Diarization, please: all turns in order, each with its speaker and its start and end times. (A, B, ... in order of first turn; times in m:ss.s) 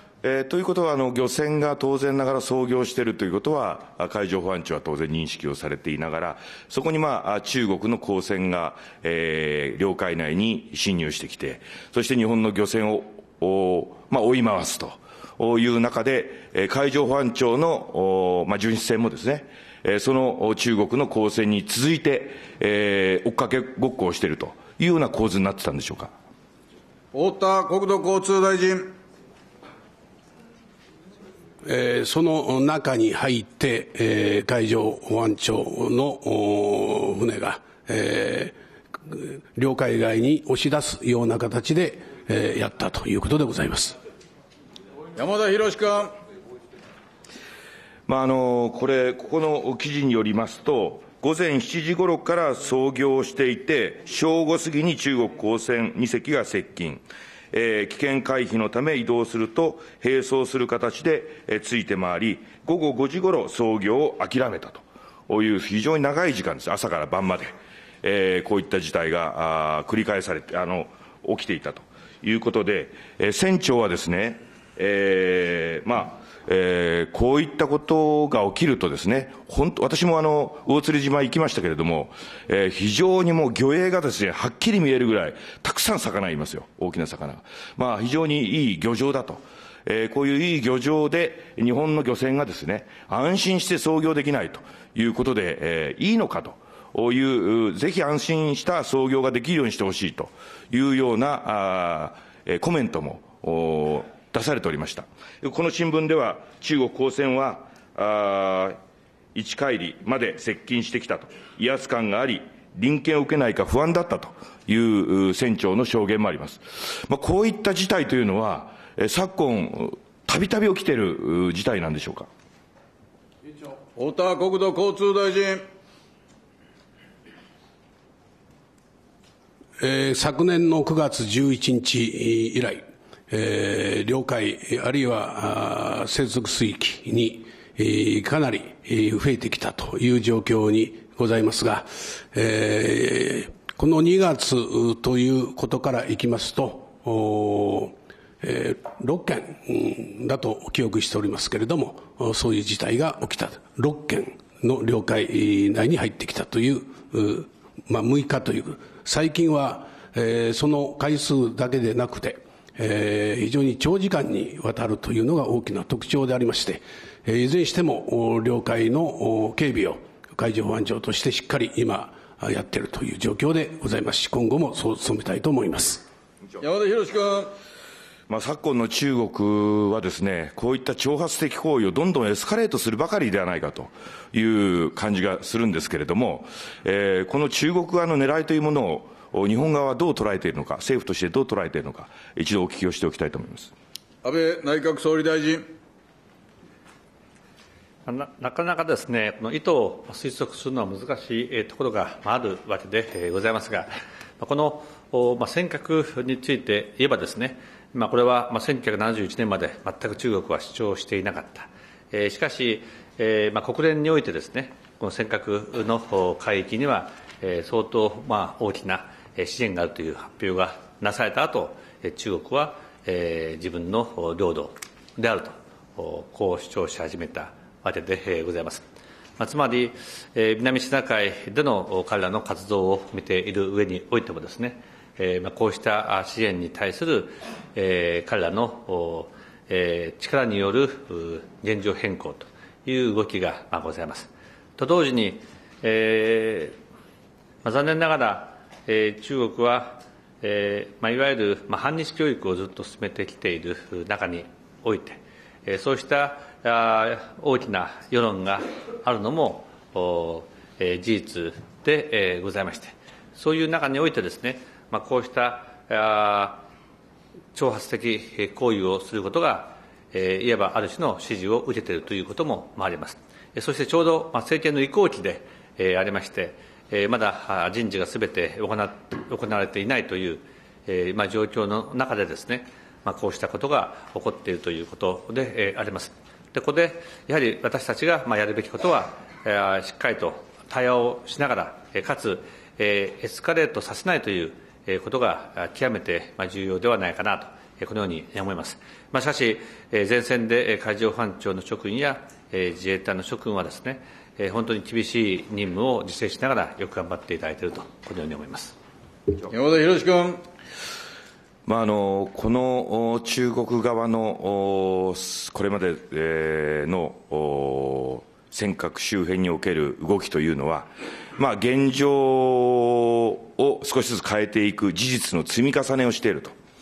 0:00.2-0:26.1 A
0:27.1-0:28.9 B
0:31.6-0:38.6 C
0:39.1-0:44.0 C
0:45.2-0:46.1 B
0:48.1-1:48.8 A
1:49.3-2:02.3 A
2:03.9-2:05.6 B
2:09.8-2:56.0 C
2:56.6-2:57.5 B
2:58.3-3:13.7 A
3:14.2-3:15.6 B
3:18.0-3:23.9 D
3:24.4-3:48.8 D
3:49.4-4:06.7 D
4:07.6-4:26.6 D
4:27.5-5:08.8 D
5:09.4-5:10.4 B
5:11.6-5:26.5 A